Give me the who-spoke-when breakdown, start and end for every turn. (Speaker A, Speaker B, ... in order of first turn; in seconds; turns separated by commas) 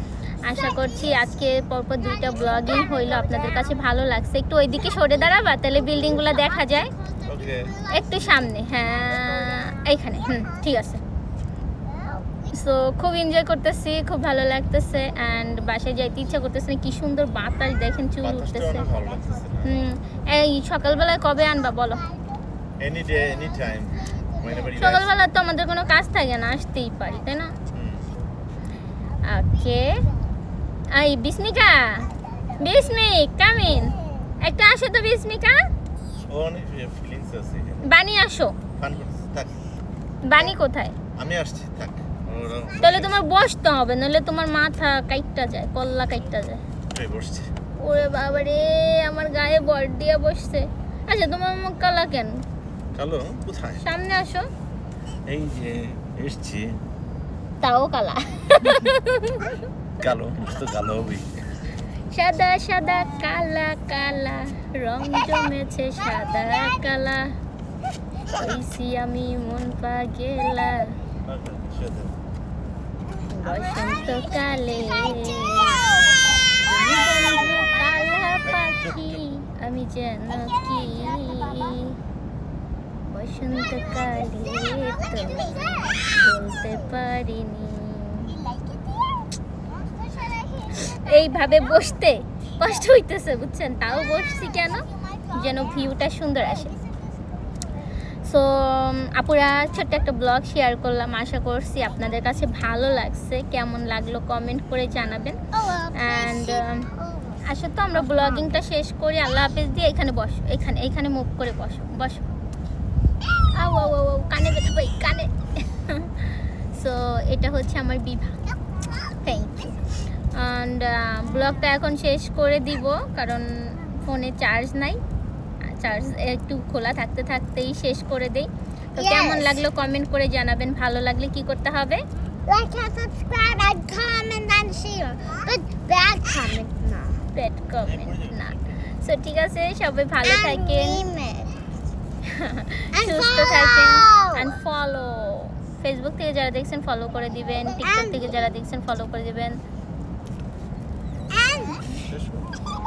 Speaker A: 0.4-6.9, Speaker B: 7.0-8.1, Speaker C: 7.2-7.7, Speaker A: 7.9-11.0, Speaker A: 12.5-18.9, Speaker C: 18.2-19.7, Speaker A: 19.6-22.0, Speaker C: 22.8-25.1, Speaker A: 24.7-27.5, Speaker C: 27.7-28.1, Speaker A: 29.2-30.0, Speaker A: 30.9-32.1, Speaker A: 32.6-35.6, Speaker C: 36.3-37.9, Speaker A: 37.8-38.5, Speaker C: 38.8-39.6, Speaker A: 40.2-40.9, Speaker C: 41.1-43.2, Speaker A: 42.8-46.6, Speaker C: 46.9-47.5, Speaker A: 47.8-52.4, Speaker C: 52.9-53.9, Speaker A: 53.8-54.5, Speaker C: 55.2-56.8, Speaker A: 57.6-59.6, Speaker C: 60.0-61.3, Speaker A: 62.1-67.3, Speaker A: 68.3-70.9, Speaker C: 71.2-72.2, Speaker A: 73.3-75.9, Speaker B: 73.6-73.8, Speaker B: 74.9-75.7, Speaker A: 76.6-82.0, Speaker C: 78.4-79.2, Speaker B: 81.2-81.6, Speaker A: 83.1-88.4, Speaker B: 88.3-89.1, Speaker B: 89.7-90.9, Speaker A: 90.7-96.7, Speaker A: 98.2-105.4, Speaker B: 105.5-107.4, Speaker A: 105.9-106.9, Speaker A: 107.5-112.2, Speaker B: 108.0-108.5, Speaker A: 113.5-118.4, Speaker A: 119.2-125.0, Speaker A: 125.6-132.0, Speaker B: 129.0-129.6, Speaker B: 132.4-137.2, Speaker A: 137.3-141.0, Speaker C: 137.8-138.6, Speaker B: 140.2-141.5, Speaker A: 142.2-149.6, Speaker B: 142.9-144.5, Speaker B: 147.8-148.3, Speaker B: 151.3-152.0, Speaker C: 152.0-152.5